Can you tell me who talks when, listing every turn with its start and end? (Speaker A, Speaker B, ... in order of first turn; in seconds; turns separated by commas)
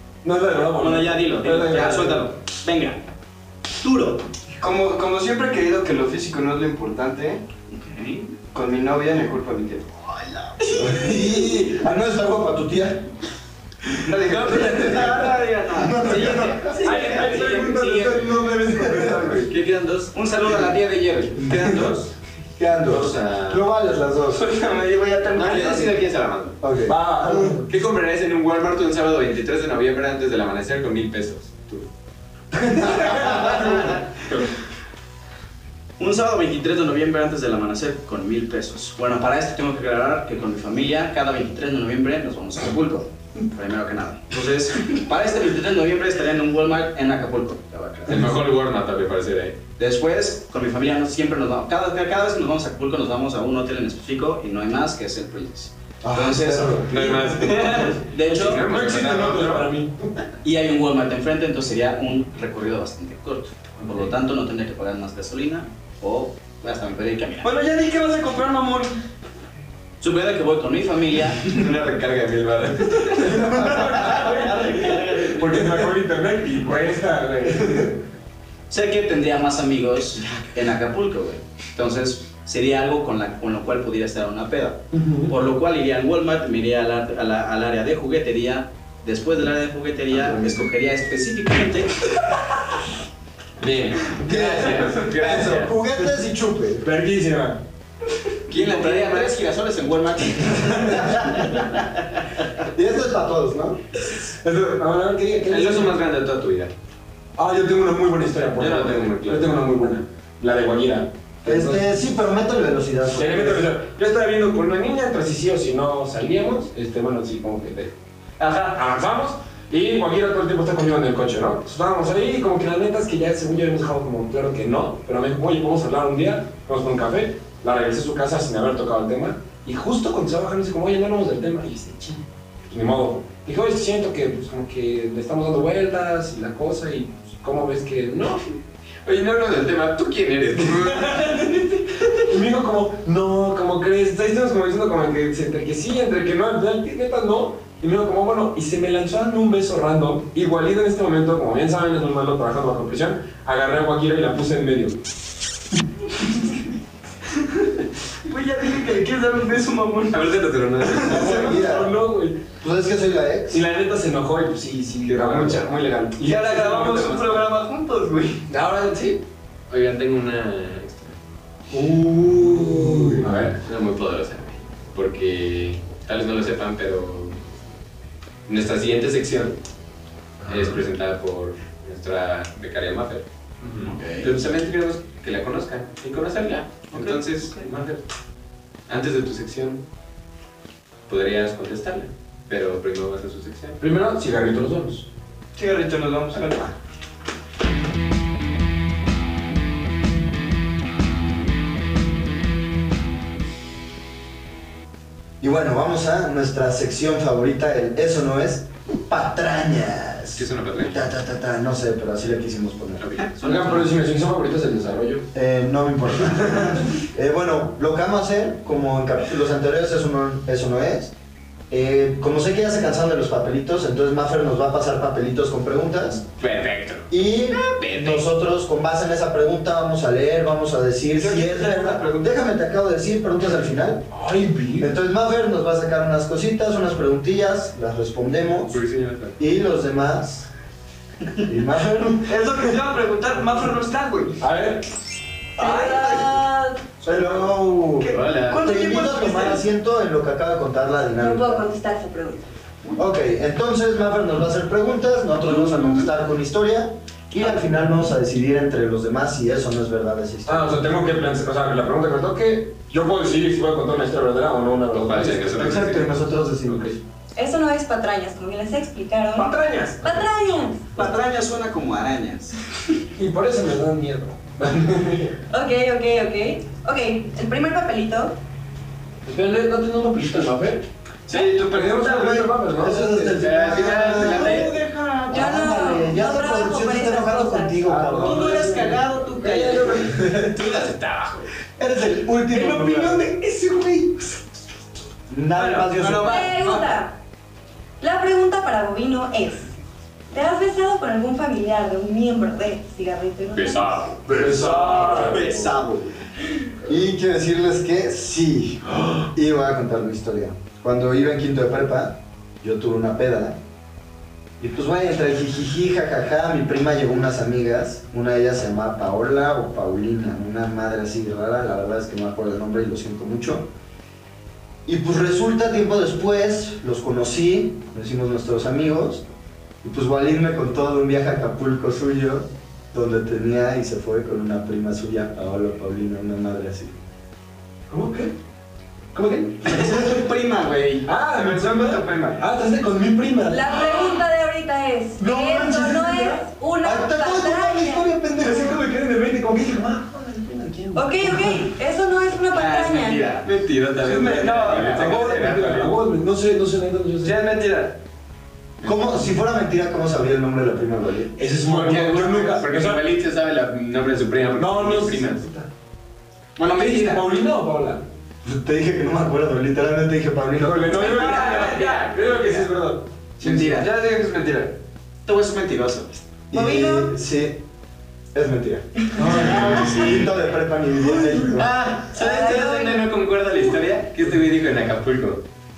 Speaker A: 0.2-2.3, Speaker B: 0.8-3.1, Speaker B: 3.8-4.2, Speaker C: 4.6-7.4, Speaker B: 7.7-8.4, Speaker C: 8.5-10.0, Speaker B: 10.1-11.2, Speaker D: 10.8-13.1, Speaker C: 14.0-15.3, Speaker B: 14.2-18.5, Speaker D: 15.7-16.9, Speaker A: 16.8-19.5, Speaker D: 18.9-19.2, Speaker E: 19.5-20.1, Speaker B: 20.1-21.5, Speaker D: 21.4-22.0, Speaker D: 22.6-24.4, Speaker E: 22.9-23.7, Speaker C: 24.3-26.1, Speaker E: 25.4-26.6, Speaker D: 26.6-27.6, Speaker A: 26.9-27.7, Speaker E: 27.7-31.9, Speaker D: 32.6-33.2, Speaker A: 32.8-34.5, Speaker B: 36.0-48.2, Speaker E: 48.1-49.6, Speaker B: 49.8-58.6, Speaker D: 56.0-57.1, Speaker A: 56.5-60.2, Speaker E: 56.9-59.7, Speaker B: 60.4-67.5, Speaker C: 67.4-69.0, Speaker B: 70.0-71.5, Speaker E: 71.5-73.4, Speaker A: 73.0-78.0, Speaker B: 73.8-75.2, Speaker B: 78.7-92.1, Speaker A: 84.9-85.3, Speaker E: 93.6-95.8, Speaker D: 94.2-96.9, Speaker A: 94.4-96.1, Speaker A: 96.8-97.6, Speaker B: 98.5-101.7, Speaker E: 98.5-99.3, Speaker D: 102.6-103.8, Speaker A: 104.1-106.0, Speaker E: 105.5-106.7, Speaker A: 107.3-112.0, Speaker E: 108.5-109.5, Speaker D: 111.5-113.7, Speaker A: 113.1-118.0, Speaker C: 118.4-118.8, Speaker A: 118.7-138.6, Speaker E: 139.1-141.5, Speaker A: 140.6-155.0, Speaker C: 157.4-161.3, Speaker E: 160.1-161.3, Speaker A: 161.0-162.4, Speaker D: 161.0-162.0, Speaker D: 162.6-163.6, Speaker A: 163.5-167.4, Speaker E: 165.1-165.7, Speaker C: 166.2-168.5, Speaker A: 168.5-169.2, Speaker E: 169.7-171.2, Speaker A: 171.7-173.6, Speaker E: 173.2-177.4, Speaker E: 178.5-179.6, Speaker E: 180.4-188.0, Speaker B: 183.8-184.3, Speaker C: 186.9-187.7, Speaker E: 188.9-189.8, Speaker E: 191.1-193.8, Speaker A: 193.8-195.1, Speaker C: 195.6-196.7, Speaker D: 205.4-213.2, Speaker E: 210.3-211.1, Speaker E: 213.0-213.5, Speaker B: 213.2-213.9, Speaker A: 213.4-215.3, Speaker D: 215.3-221.1, Speaker D: 221.7-226.2, Speaker E: 226.2-228.3, Speaker D: 227.1-234.1, Speaker C: 231.1-232.4, Speaker A: 234.1-235.0, Speaker D: 234.8-238.8, Speaker E: 238.7-239.4, Speaker D: 239.4-240.5, Speaker D: 241.4-242.3, Speaker C: 242.2-244.4, Speaker A: 244.4-244.9, Speaker C: 245.6-246.4, Speaker F: 245.6-247.0, Speaker C: 247.0-249.6, Speaker D: 247.1-251.7, Speaker E: 248.0-248.7, Speaker F: 251.2-252.5, Speaker D: 253.0-260.9, Speaker F: 255.6-256.1, Speaker A: 260.5-266.9, Speaker E: 265.0-266.2, Speaker D: 265.6-267.0, Speaker F: 267.4-271.1, Speaker A: 269.4-270.3, Speaker B: 270.9-272.6, Speaker A: 273.1-275.4, Speaker F: 275.5-278.4, Speaker A: 279.2-280.9, Speaker C: 281.3-282.5, Speaker A: 281.7-284.9, Speaker D: 282.1-288.8, Speaker E: 283.3-284.7, Speaker F: 285.3-287.9, Speaker A: 287.8-290.3, Speaker B: 288.2-290.1, Speaker D: 290.1-290.6, Speaker E: 290.2-291.5, Speaker D: 291.8-293.3, Speaker A: 292.5-294.4, Speaker D: 295.3-296.4, Speaker C: 295.6-296.1, Speaker B: 295.9-297.0, Speaker F: 296.1-297.2, Speaker F: 298.0-299.7, Speaker F: 300.3-304.2, Speaker E: 303.5-304.3, Speaker A: 304.3-305.6, Speaker C: 304.4-305.9, Speaker B: 305.1-305.5, Speaker D: 305.3-305.7, Speaker D: 306.8-313.6, Speaker D: 314.6-323.7, Speaker D: 324.9-329.2, Speaker D: 329.8-336.9, Speaker A: 337.9-338.3, Speaker A: 339.1-340.2, Speaker B: 339.6-341.1, Speaker A: 341.1-343.8, Speaker C: 341.3-342.4, Speaker F: 343.5-348.1, Speaker D: 345.2-346.1, Speaker A: 345.7-346.4, Speaker D: 346.8-348.8, Speaker A: 348.4-351.7, Speaker F: 350.9-353.4, Speaker B: 352.5-353.5, Speaker E: 353.4-356.0, Speaker C: 354.0-355.7, Speaker A: 354.7-357.4, Speaker C: 357.2-358.0, Speaker D: 358.8-361.3, Speaker A: 361.4-363.1, Speaker E: 361.6-365.4, Speaker A: 364.6-365.7, Speaker B: 366.6-367.2, Speaker A: 366.6-368.1, Speaker D: 368.4-371.3, Speaker A: 370.6-373.1, Speaker B: 370.9-372.5, Speaker F: 371.3-371.6, Speaker E: 371.4-372.6, Speaker B: 373.4-373.9, Speaker C: 373.4-374.8, Speaker B: 375.3-376.2, Speaker D: 376.5-377.6, Speaker F: 376.5-377.1, Speaker D: 378.3-381.7, Speaker A: 379.2-380.2, Speaker E: 379.4-380.3, Speaker F: 379.7-380.0, Speaker A: 381.1-381.5, Speaker E: 381.5-385.4, Speaker F: 382.1-383.1